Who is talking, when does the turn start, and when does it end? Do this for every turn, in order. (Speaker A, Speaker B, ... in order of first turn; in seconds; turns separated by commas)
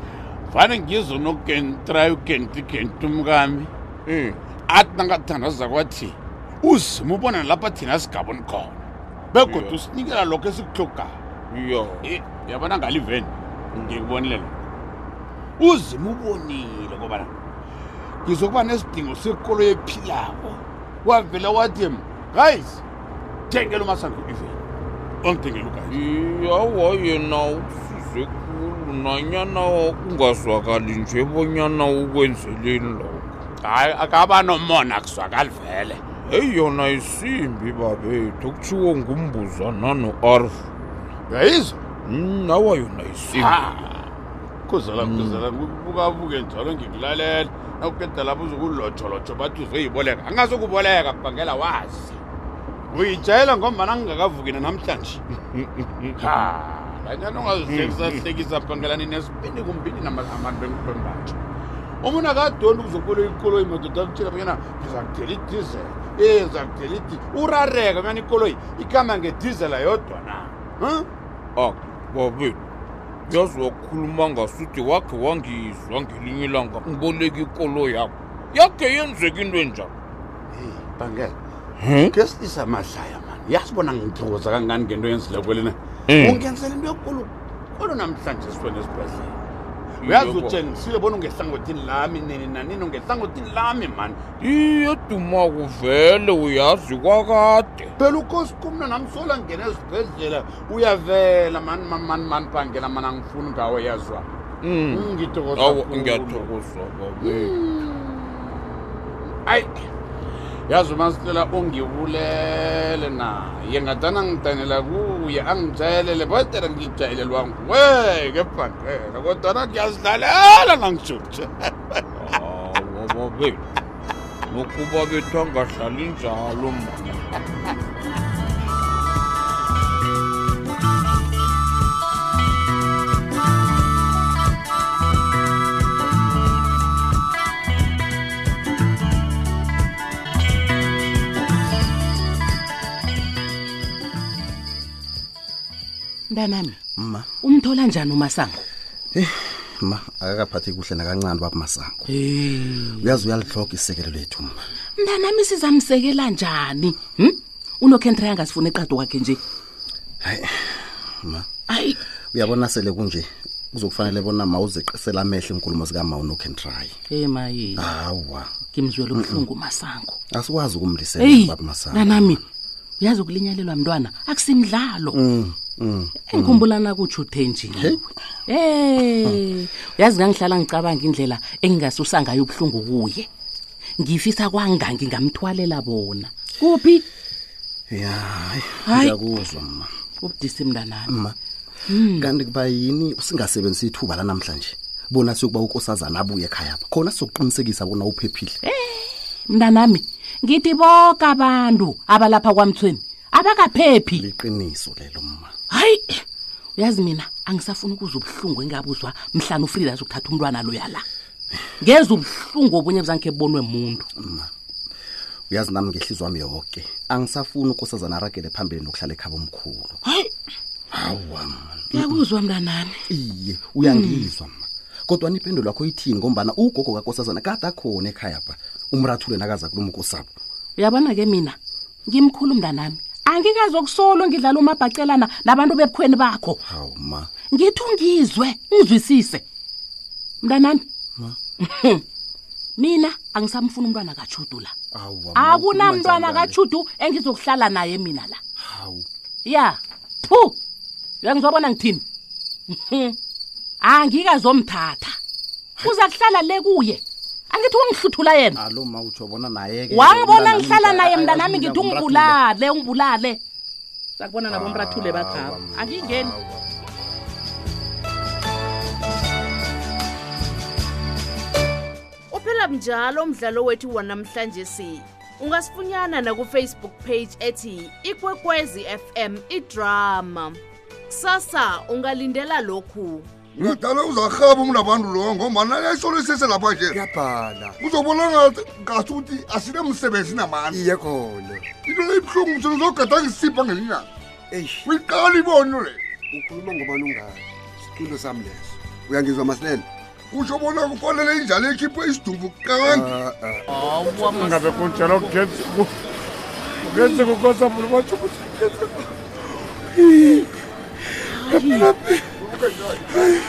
Speaker A: 0.5-3.7, Speaker B: 4.1-4.4, Speaker A: 4.7-11.2, Speaker B: 9.4-9.8, Speaker B: 11.5-12.1, Speaker A: 12.0-14.6, Speaker A: 15.6-17.3, Speaker A: 18.2-22.8, Speaker A: 23.5-24.6, Speaker A: 25.2-26.0, Speaker B: 25.9-33.3, Speaker A: 33.6-36.0, Speaker B: 36.3-40.7, Speaker A: 41.3-41.8, Speaker B: 42.1-43.6, Speaker A: 43.3-44.1, Speaker A: 44.7-52.2, Speaker B: 45.0-45.4, Speaker A: 52.9-55.2, Speaker B: 55.5-56.1, Speaker A: 56.2-61.4, Speaker B: 57.7-58.2, Speaker A: 62.0-71.1, Speaker B: 71.6-72.6, Speaker B: 73.3-79.9, Speaker A: 80.5-81.4, Speaker B: 81.8-82.2, Speaker A: 82.1-89.4, Speaker B: 86.1-86.4, Speaker B: 90.0-90.7, Speaker A: 90.0-94.2, Speaker B: 94.4-97.9, Speaker A: 98.0-104.3, Speaker B: 104.6-107.6, Speaker A: 104.9-106.5, Speaker A: 107.2-108.5, Speaker A: 109.5-109.8, Speaker A: 110.7-122.0, Speaker B: 122.2-123.6, Speaker B: 124.5-127.3, Speaker C: 146.3-146.8, Speaker D: 147.0-147.3, Speaker C: 147.4-148.6, Speaker D: 149.1-152.1, Speaker C: 152.1-153.2, Speaker D: 153.0-154.6, Speaker C: 155.0-159.4, Speaker D: 160.2-161.5, Speaker C: 161.7-162.0, Speaker D: 162.3-166.9, Speaker C: 167.1-167.9, Speaker D: 167.8-168.5, Speaker C: 168.7-170.2, Speaker D: 169.1-169.5, Speaker D: 170.3-172.4, Speaker C: 171.2-172.4, Speaker C: 173.0-175.2, Speaker D: 175.1-176.7, Speaker C: 176.2-183.3, Speaker D: 177.7-178.0, Speaker C: 184.0-187.1, Speaker D: 187.9-189.9, Speaker C: 188.8-189.2, Speaker C: 190.2-191.1, Speaker D: 191.1-191.4, Speaker C: 191.9-192.3, Speaker D: 192.1-198.6, Speaker C: 198.6-204.2, Speaker D: 204.1-205.5, Speaker C: 205.7-206.2, Speaker C: 206.8-211.0, Speaker C: 211.8-214.1, Speaker D: 214.2-214.5, Speaker D: 215.5-220.0, Speaker C: 220.0-220.3, Speaker D: 220.9-222.2, Speaker C: 221.9-223.0, Speaker D: 223.1-230.3, Speaker C: 223.8-224.3, Speaker C: 230.8-236.6, Speaker D: 236.7-237.3, Speaker C: 237.5-239.4, Speaker C: 240.4-240.8, Speaker C: 241.6-242.0, Speaker C: 242.8-244.7, Speaker D: 244.9-246.6, Speaker C: 245.3-248.4, Speaker D: 248.6-249.1, Speaker C: 249.4-250.6, Speaker C: 251.2-252.0, Speaker C: 252.7-253.2, Speaker C: 253.8-255.2, Speaker C: 255.8-258.6, Speaker D: 258.6-262.4, Speaker C: 259.9-263.4, Speaker C: 264.2-266.4, Speaker D: 264.5-266.9, Speaker E: 272.3-283.3, Speaker F: 283.7-287.0, Speaker G: 286.9-287.8, Speaker F: 287.8-290.8, Speaker G: 290.7-291.7, Speaker F: 291.8-294.1, Speaker G: 294.5-294.9, Speaker F: 294.9-296.0, Speaker G: 296.3-299.9, Speaker F: 300.3-303.0, Speaker G: 302.9-303.6, Speaker C: 303.7-305.5, Speaker A: 304.2-305.9, Speaker C: 306.8-307.4, Speaker A: 307.0-308.9, Speaker C: 311.2-311.9, Speaker F: 312.4-313.2